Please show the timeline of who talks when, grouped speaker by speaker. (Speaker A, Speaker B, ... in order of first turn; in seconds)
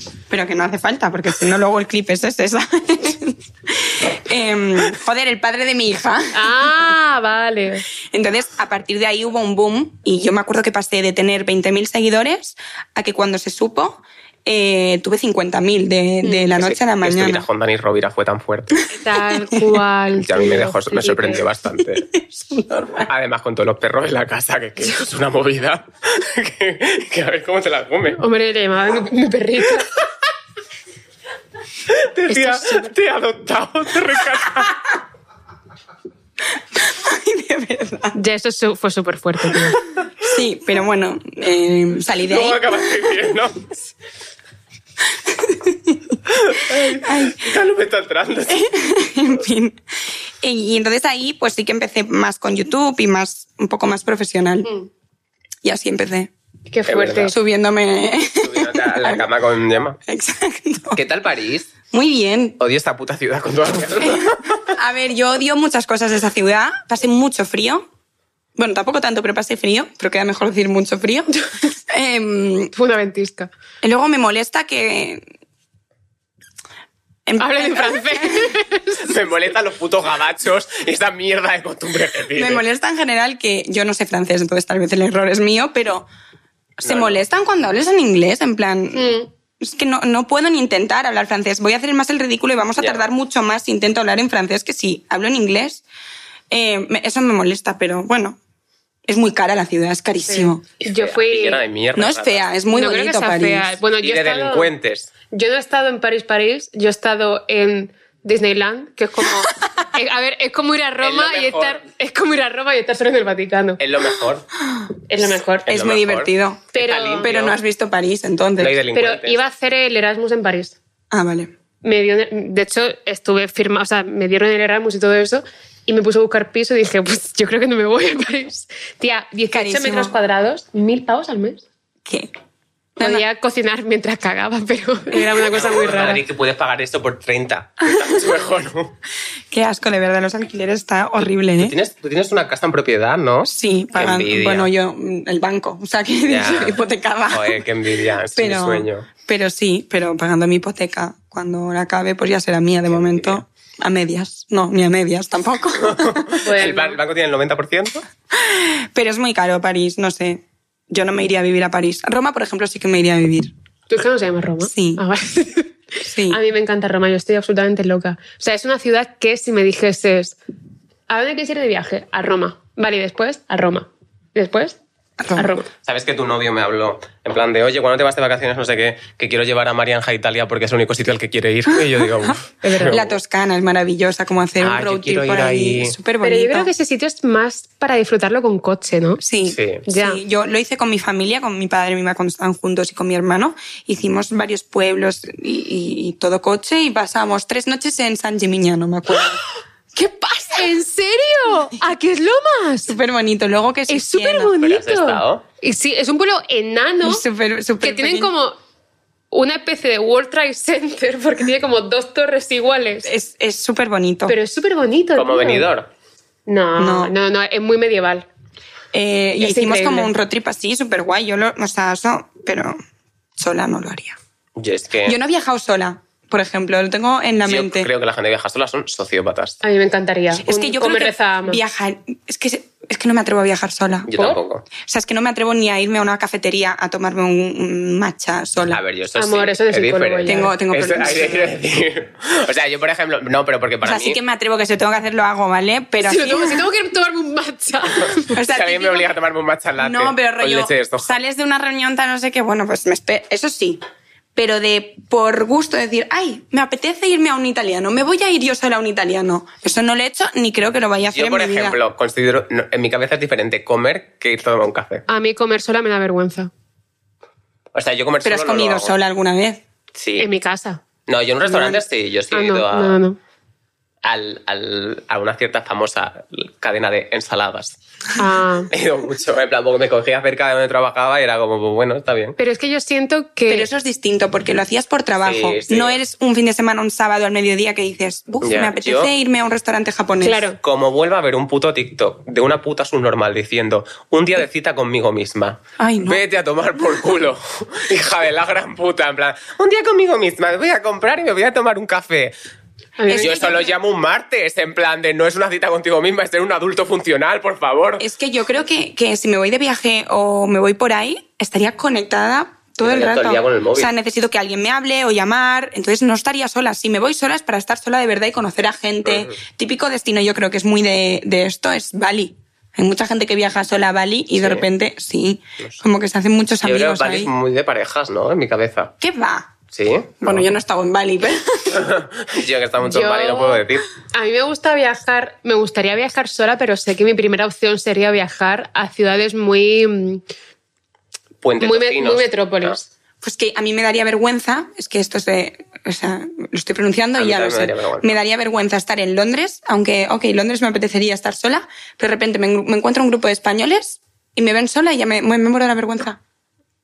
Speaker A: 0.3-6.9, 8.1-17.5, 22.1-23.1, 36.8-38.2, 40.2-43.1, 45.2-46.2, 46.8-47.5, 48.5-49.8, 50.4-54.7, 55.6-56.3, 57.3-59.3, 60.1-61.0, 61.9-62.6, 64.1-67.9, 68.6-71.3, 71.9-72.7, 73.8-75.2, 77.3-78.5, 82.3-86.1, 86.8-95.8, 96.5-98.4, 99.1-100.6, 102.0-103.8, 115.7-118.8, 121.1-121.5, 129.5-130.2, 132.1-132.3, 133.0-133.2, 137.9-138.3, 139.5-141.7, 143.4-147.6, 148.3-156.3, 158.3-163.5, 164.6-165.0, 166.0-166.4, 175.2-175.6, 181.7-182.4, 182.9-186.7, 189.2-199.4, 199.9-200.7, 202.9-204.6, 207.0-208.3, 213.0-214.3, 216.8-217.1, 218.9-222.8, 223.4-224.2, 225.1-227.9, 230.4-234.1, 234.8-238.8, 240.3-241.6, 243.8-246.7, 248.3-249.1, 249.8-253.8, 254.3-261.8, 268.2-269.6, 271.5-271.8, 283.5-290.5, 295.8-296.2, 303.1-303.7, 308.0-327.3, 329.0-329.6, 330.2-331.9, 343.2-356.2
Speaker B: 6.3-7.9, 18.9-21.4, 28.1-30.0, 32.3-33.0, 38.1-39.8, 56.7-57.4, 72.7-73.5, 77.4-79.1, 88.9-89.3, 100.3-101.6, 102.7-104.7, 105.3-113.8, 115.1-115.7, 116.8-117.3, 118.9-120.8, 121.8-131.7, 133.0-136.2, 156.4-157.0, 163.9-170.4, 171.1-174.8, 175.3-175.7, 182.6-183.0, 186.2-189.2, 189.8-190.2, 200.4-202.9, 203.9-207.2, 207.8-208.6, 209.3-213.1, 214.3-215.7, 216.5-218.3, 219.4-220.1, 229.6-231.6, 239.2-240.6, 246.0-248.4, 265.1-266.5, 270.2-270.8, 272.3-273.2, 278.1-278.7, 282.4-283.7, 290.2-290.6, 303.0-303.7, 332.8-340.2, 341.6-342.9
Speaker C: 16.5-18.8, 20.1-22.1, 23.0-28.2, 31.9-34.8, 42.2-43.7, 46.3-48.7, 56.9-57.4, 58.4-60.0, 61.0-61.7, 62.6-64.8, 79.0-82.6, 86.8-87.2, 92.8-93.0, 100.9-102.5, 104.0-105.1, 111.0-111.8, 113.8-114.5, 115.7-117.6, 118.6-119.4, 135.5-139.0, 141.6-144.7, 146.3-149.1, 152.9-153.4, 155.8-158.0, 175.8-183.2, 184.6-186.0, 189.5-189.8, 204.6-205.4, 215.2-215.9, 224.6-225.2, 227.4-229.6, 234.1-234.7, 238.7-244.2, 248.4-251.2, 261.1-265.1, 267.7-268.9, 270.0-270.3, 271.1-273.0, 274.0-277.8, 278.7-282.4, 285.2-286.0, 288.4-289.1, 290.6-302.3, 303.1-308.1, 312.8-313.9, 324.4-324.7, 326.6-328.9, 329.7-330.5, 331.7-333.9, 341.4-342.8, 347.2-348.2